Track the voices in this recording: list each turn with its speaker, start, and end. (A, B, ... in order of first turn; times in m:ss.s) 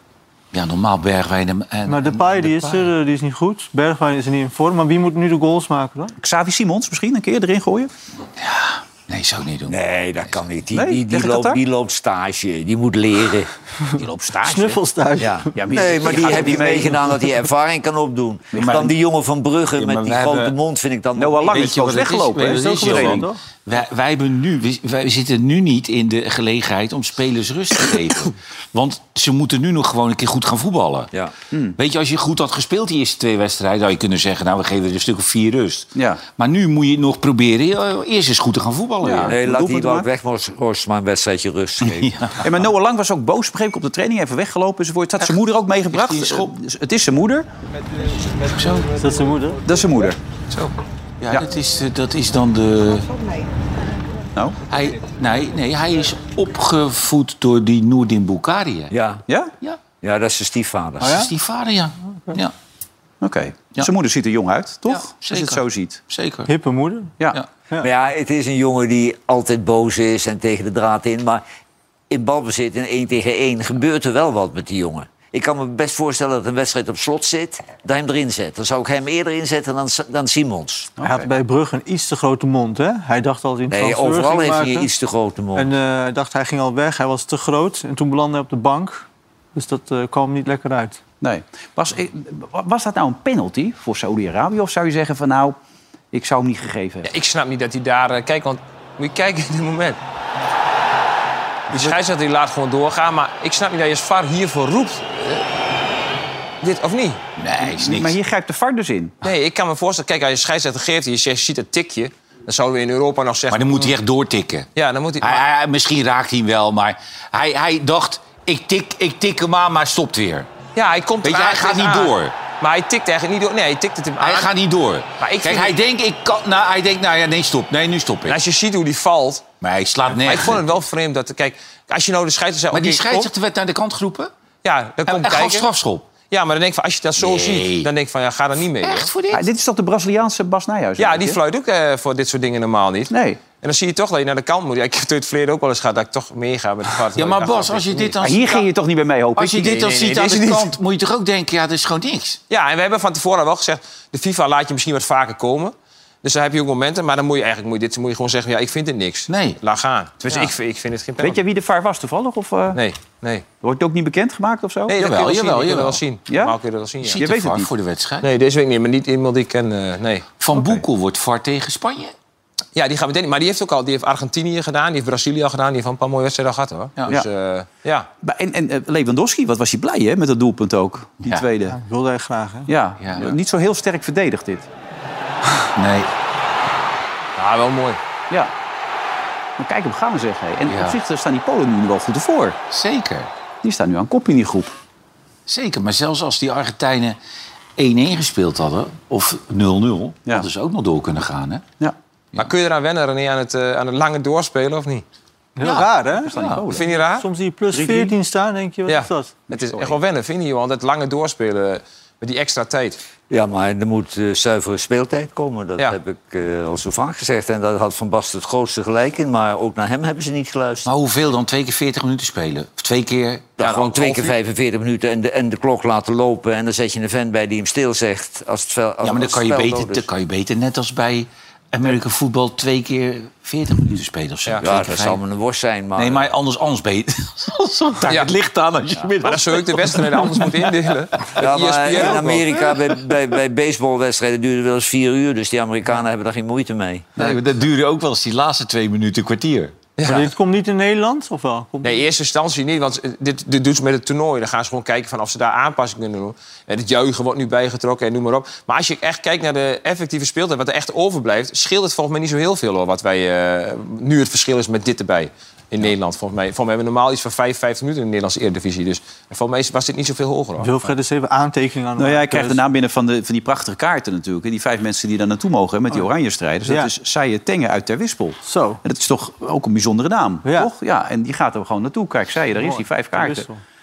0:00.5-0:02.9 A
0:01.8-0:06.1 B
0:06.2-0:07.9 C
0:08.4-0:10.4 A
0:09.7-0:13.5 D
0:10.7-0:11.6 C
0:14.0-0:14.8 C
0:14.4-0:15.5 B
0:15.2-0:22.0 D
0:15.5-0:17.2 C
0:18.5-0:18.9 C
0:18.6-0:18.9 A
0:19.8-0:20.5 A
0:21.2-0:23.3 C
0:21.5-0:31.1 A
0:22.4-0:23.4 B
0:31.8-0:39.3 A
0:36.0-0:36.2 C
0:39.0-0:40.1 C
0:39.3-0:42.0 D
0:41.8-0:42.5 A
0:42.4-0:47.4 C
0:45.9-0:46.5 A
0:48.4-0:48.9 A
0:49.0-0:49.6 B
0:49.6-0:50.2 C
0:51.2-0:53.2 A
0:54.7-0:58.9 A
0:58.9-0:59.2 D
1:00.0-1:01.2 D
1:01.0-1:01.3 B
1:01.0-1:02.5 A
1:03.2-1:06.0 C
1:04.9-1:06.5 A
1:06.5-1:07.1 B
1:07.8-1:11.4 D
1:12.1-1:20.9 D
1:21.0-1:21.3 C
1:21.0-1:24.9 B
1:23.7-1:25.7 D
1:25.5-1:31.0 B
1:31.2-1:35.6 C
1:36.1-1:37.1 C
1:37.0-1:40.0 E
1:41.7-1:45.4 E
1:46.6-1:47.2 E
1:47.4-1:48.2 A
1:47.6-1:49.2 C
1:49.2-1:53.9 E
1:53.5-1:54.7 A
1:54.8-1:55.4 E
1:55.2-2:00.5 A
2:00.7-2:04.5 E
2:01.2-2:02.3 A
2:04.2-2:08.4 A
2:05.2-2:05.7 E
2:08.3-2:09.5 E
2:09.6-2:10.8 A
2:10.1-2:13.3 E
2:12.7-2:14.3 A
2:14.6-2:15.6 E
2:15.0-2:16.1 A
2:16.2-2:19.1 E
2:17.2-2:17.9 A
2:18.8-2:19.5 A
2:19.3-2:21.4 C
2:21.0-2:28.3 E
2:23.1-2:23.4 C
2:27.1-2:28.6 A
2:28.2-2:29.8 C
2:29.4-2:32.4 A
2:29.8-2:30.7 E
2:32.5-2:41.4 E
2:39.3-2:39.6 A
2:41.2-2:42.8 C
2:42.7-2:43.4 E
2:43.6-2:44.9 C
2:44.9-2:47.2 E
2:44.9-2:46.0 A
2:46.3-2:46.6 C
2:47.0-2:48.3 A
2:47.1-2:47.7 C
2:48.2-2:50.3 E
2:50.4-2:52.1 A
2:50.5-2:50.8 C
2:52.7-2:58.1 E
2:57.0-2:57.2 A
2:58.2-3:01.8 C
3:01.7-3:02.7 B
3:02.7-3:04.7 C
3:03.0-3:03.4 A
3:05.7-3:06.1 A
3:07.4-3:08.0 E
3:09.6-3:12.6 C
3:10.6-3:11.0 A
3:12.7-3:13.3 A
3:13.6-3:14.7 C
3:15.5-3:17.2 A
3:17.8-3:21.6 A
3:22.4-3:25.0 E
3:25.6-3:26.3 B
3:25.6-3:26.6 A
3:26.2-3:26.9 C
3:26.7-3:27.2 E
3:27.0-3:29.3 B
3:27.7-3:28.1 C
3:28.9-3:33.0 E
3:29.5-3:30.0 C
3:33.3-3:40.9 D
3:40.8-3:44.3 A
3:43.6-3:50.1 D
3:49.0-3:55.2 A
3:54.6-3:56.3 D
3:55.9-4:01.2 A
3:58.0-3:58.3 E
3:59.2-4:02.6 E
4:01.4-4:07.1 D
4:07.2-4:09.8 A
4:10.0-4:10.3 E
4:10.0-4:12.0 B
4:11.8-4:30.7 E
4:30.6-4:32.6 B
4:32.0-4:43.5 C
4:36.6-4:36.9 B
4:38.4-4:38.8 B
4:40.4-4:40.7 B
4:42.5-4:43.6 B